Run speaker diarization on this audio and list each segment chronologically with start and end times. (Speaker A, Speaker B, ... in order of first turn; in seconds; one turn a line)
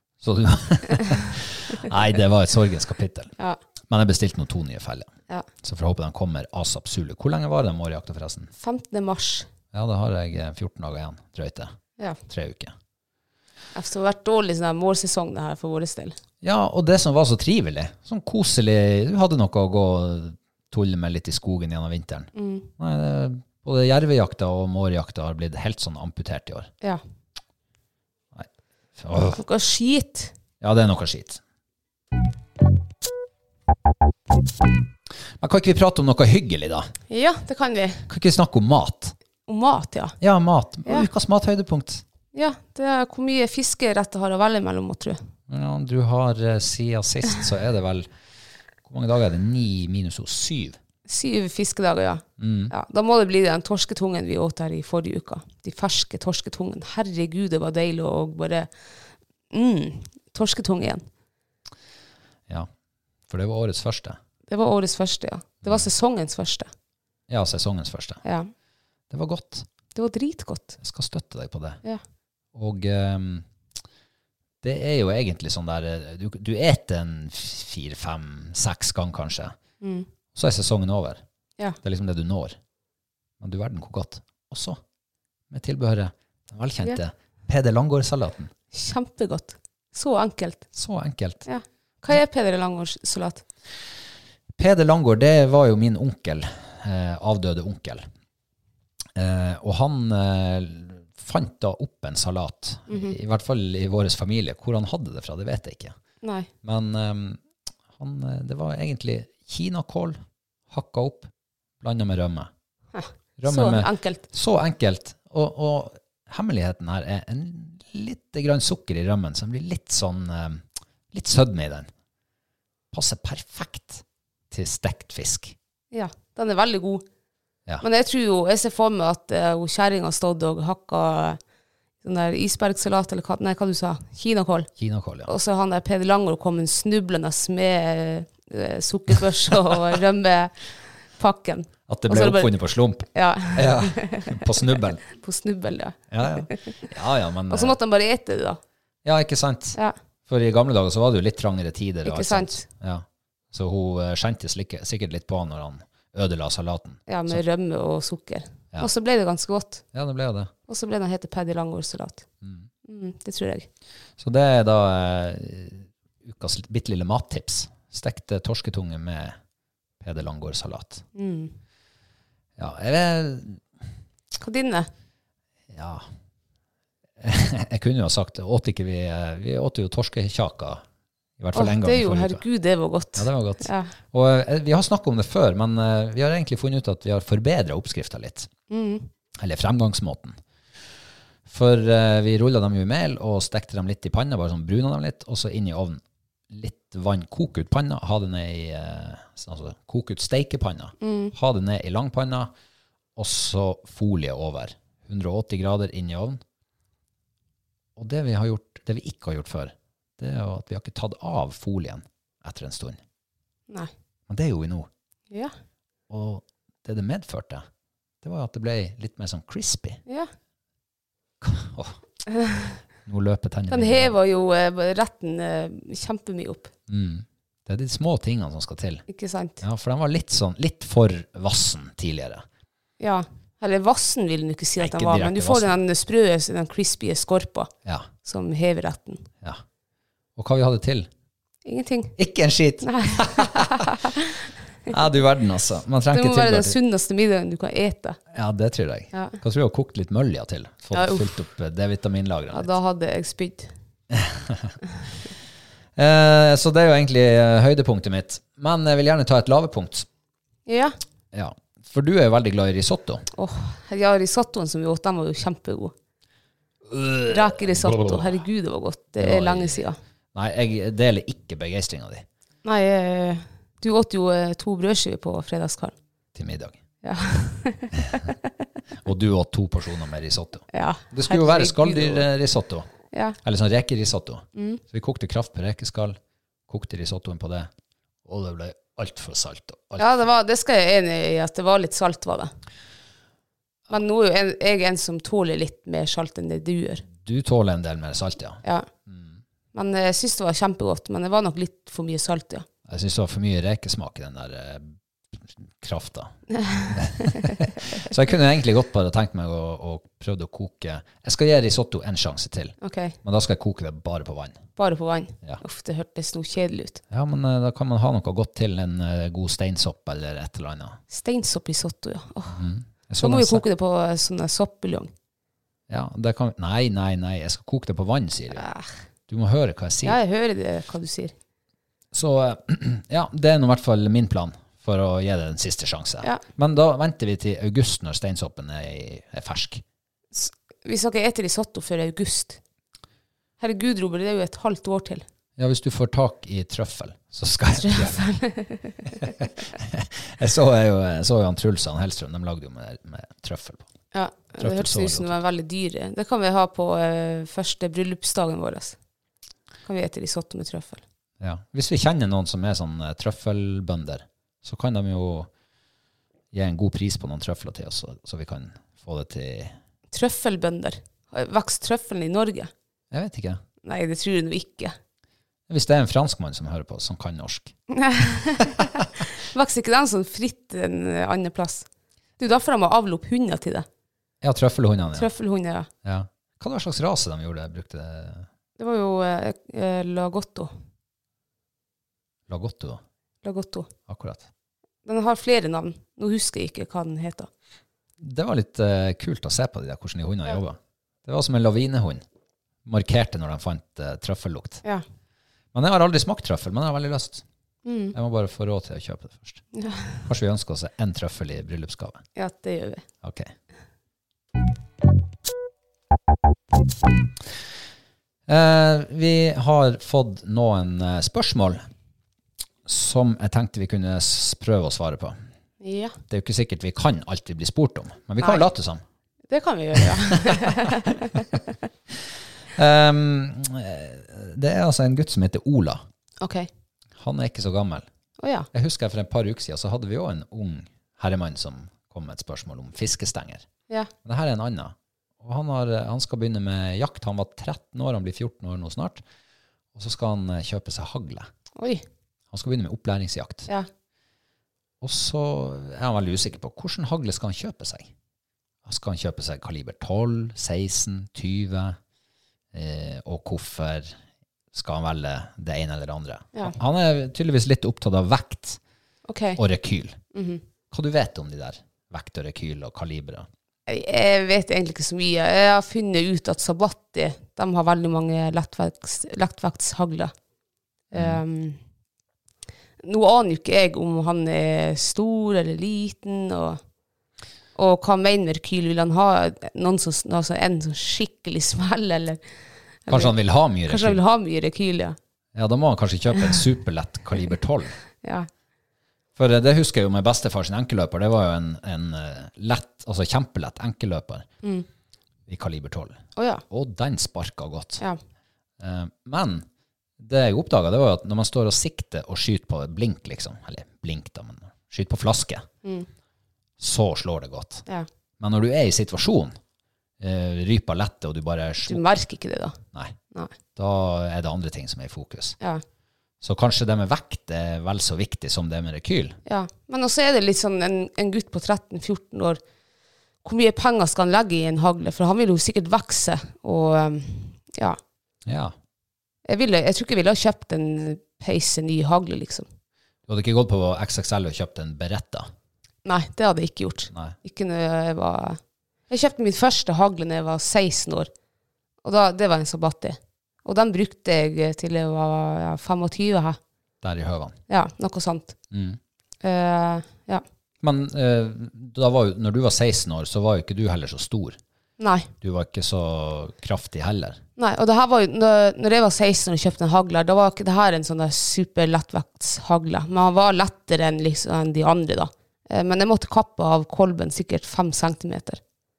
Speaker A: 0.2-3.3
Speaker A: 3.9-5.1
Speaker A: 5.6-8.5
Speaker B: 8.6-9.5
Speaker A: 9.7-11.7
Speaker A: 12.3-12.7
Speaker B: 13.7-16.2
Speaker A: 16.4-26.7
Speaker B: 22.3-22.7
Speaker A: 28.3-29.4
Speaker B: 29.3-30.3
Speaker A: 30.6-31.4
Speaker A: 35.4-36.9
Speaker B: 37.1-38.0
Speaker A: 38.1-39.1
Speaker B: 39.5-40.1
Speaker A: 40.2-42.0
Speaker B: 42.3-45.2
Speaker A: 45.5-48.1
Speaker A: 48.8-50.8
Speaker B: 51.1-58.7
Speaker A: 52.4-52.7
Speaker B: 59.5-61.0
Speaker A: 63.3-64.2
Speaker B: 64.5-66.7
Speaker A: 67.3-68.2
Speaker B: 68.2-68.5
Speaker A: 69.1-69.7
Speaker B: 69.9-70.8
Speaker A: 70.8-71.8
Speaker A: 72.5-73.5
Speaker A: 74.6-79.5
Speaker B: 79.8-80.1
Speaker A: 80.3-81.2
Speaker A: 81.8-82.6
Speaker A: 83.4-84.8
Speaker A: 85.5-88.5
Speaker B: 88.7-90.6
Speaker A: 90.7-91.5
Speaker B: 91.5-93.4
Speaker A: 94.6-98.1
Speaker A: 99.2-105.9
Speaker B: 102.9-103.2
Speaker B: 106.2-106.5
Speaker A: 106.6-107.4
Speaker A: 108.0-112.5
Speaker B: 112.9-114.2
Speaker A: 113.4-121.9
Speaker A: 122.9-125.5
Speaker B: 125.9-127.0
Speaker B: 127.8-131.4
Speaker B: 132.0-134.7
Speaker A: 134.8-135.3
Speaker B: 135.2-142.5
Speaker A: 141.9-145.0
Speaker B: 143.1-144.4
Speaker B: 145.1-146.7
Speaker A: 146.1-147.8
Speaker B: 147.5-148.6
Speaker A: 149.0-157.4
Speaker B: 152.0-152.7
Speaker B: 157.1-159.8
Speaker A: 159.9-160.5
Speaker B: 160.7-162.2
Speaker A: 162.4-162.7
Speaker B: 162.9-163.7
Speaker A: 164.2-169.4
Speaker A: 170.0-171.0
Speaker B: 171.2-171.5
Speaker A: 172.6-173.6
Speaker B: 174.4-174.9
Speaker A: 175.7-176.1
Speaker A: 177.2-180.8
Speaker A: 181.4-182.4
Speaker B: 181.5-183.9
Speaker A: 183.2-188.5
Speaker B: 188.7-189.1
Speaker A: 189.4-190.4
Speaker A: 191.5-202.5
Speaker B: 201.0-201.3
Speaker A: 203.2-206.4
Speaker A: 208.0-213.0
Speaker A: 214.3-214.9
Speaker A: 216.1-217.6
Speaker A: 218.2-220.0
Speaker A: 221.4-222.0
Speaker B: 222.4-222.7
Speaker A: 223.1-224.1
Speaker B: 223.7-226.7
Speaker A: 226.9-229.1
Speaker B: 229.1-229.6
Speaker A: 229.6-232.4
Speaker B: 233.0-237.7
Speaker A: 234.8-235.8
Speaker B: 238.2-239.3
Speaker A: 240.3-241.1
Speaker B: 241.6-242.1
Speaker A: 242.2-243.8
Speaker B: 242.8-244.3
Speaker A: 244.9-246.8
Speaker B: 246.1-248.2
Speaker A: 248.3-252.7
Speaker B: 249.1-249.4
Speaker B: 250.9-251.3
Speaker B: 252.5-253.7
Speaker A: 254.1-254.7
Speaker A: 255.9-260.1
Speaker B: 260.7-260.9
Speaker A: 261.3-263.2
Speaker B: 263.3-265.9
Speaker A: 266.9-268.4
Speaker B: 267.3-270.0
Speaker A: 269.2-272.2
Speaker B: 272.6-275.9
Speaker A: 276.3-276.8
Speaker B: 277.0-277.9
Speaker A: 278.0-278.3
Speaker A: 279.0-282.9
Speaker B: 280.7-282.3
Speaker B: 283.1-283.4
Speaker A: 283.4-287.7
Speaker B: 284.6-284.8
Speaker A: 288.2-290.2
Speaker B: 290.0-292.5
Speaker B: 293.9-297.0
Speaker A: 297.2-299.4
Speaker B: 299.7-302.6
Speaker A: 302.9-306.4
Speaker B: 306.6-307.5
Speaker A: 306.9-314.6
Speaker B: 312.8-313.1
Speaker B: 314.8-317.0
Speaker A: 317.1-321.0
Speaker B: 321.1-322.6
Speaker A: 322.5-323.6
Speaker B: 323.2-325.1
Speaker A: 325.9-328.7
Speaker B: 328.6-328.9
Speaker A: 329.3-330.2
Speaker B: 330.0-331.3
Speaker A: 332.1-339.8
Speaker B: 340.3-342.6
Speaker B: 343.6-345.2
Speaker A: 345.6-348.2
Speaker B: 347.8-349.3
Speaker A: 349.4-353.9
Speaker B: 354.1-359.0
Speaker A: 354.6-355.4
Speaker B: 359.9-361.0
Speaker A: 361.4-365.5
Speaker A: 366.5-369.8
Speaker B: 370.1-372.7
Speaker A: 373.1-373.6
Speaker B: 373.8-374.9
Speaker A: 375.7-377.8
Speaker B: 377.9-381.9
Speaker B: 382.4-383.9
Speaker A: 384.4-385.3
Speaker B: 385.1-385.9
Speaker A: 386.0-388.5
Speaker B: 388.8-390.7
Speaker A: 392.5-393.0
Speaker B: 393.4-393.9
Speaker A: 394.1-394.4
Speaker B: 395.1-397.5
Speaker A: 398.2-402.2
Speaker A: 402.8-404.8
Speaker A: 405.7-407.4
Speaker B: 407.8-408.1
Speaker A: 408.1-409.6
Speaker B: 409.7-410.2
Speaker A: 410.2-412.2
Speaker B: 412.4-413.0
Speaker A: 413.2-413.5
Speaker A: 418.5-421.8
Speaker A: 422.8-425.4
Speaker B: 425.8-426.1
Speaker A: 426.3-429.0
Speaker B: 428.4-428.6
Speaker B: 429.5-431.2
Speaker A: 429.9-430.7
Speaker A: 432.7-436.0
Speaker B: 436.4-436.7
Speaker A: 437.2-438.1
Speaker B: 438.4-438.7
Speaker A: 438.7-443.6
Speaker A: 444.2-449.2
Speaker A: 449.9-451.5
Speaker B: 451.8-452.0
Speaker A: 452.5-453.7
Speaker A: 455.0-458.1
Speaker A: 458.8-462.0
Speaker A: 462.7-464.2
Speaker A: 464.7-468.8
Speaker B: 469.3-469.6
Speaker A: 469.6-470.2
Speaker B: 470.3-470.6
Speaker A: 470.9-473.5
Speaker B: 473.9-480.3
Speaker A: 481.1-481.4
Speaker B: 481.1-481.8
Speaker B: 483.0-486.8
Speaker B: 487.8-492.4
Speaker B: 493.1-493.3
Speaker A: 493.1-494.2
Speaker B: 493.9-495.1
Speaker A: 495.5-497.9
Speaker A: 499.4-504.5
Speaker A: 505.5-508.0
Speaker B: 506.4-506.6
Speaker A: 508.8-509.6
Speaker A: 510.2-515.7
Speaker A: 516.8-517.9
Speaker A: 518.4-519.5
Speaker A: 520.2-522.0
Speaker B: 521.9-522.8
Speaker A: 523.7-525.5
Speaker A: 526.4-529.4
Speaker B: 529.5-532.6
Speaker B: 533.4-538.0
Speaker A: 538.5-538.7
Speaker B: 539.5-542.7
Speaker A: 543.3-545.5
Speaker B: 546.0-551.3
Speaker A: 547.1-547.4
Speaker B: 552.0-556.6
Speaker A: 557.0-557.6
Speaker B: 557.7-558.5
Speaker A: 558.7-559.0
Speaker B: 559.4-560.4
Speaker A: 560.8-564.6
Speaker B: 565.0-565.3
Speaker A: 565.4-567.4
Speaker B: 567.6-578.6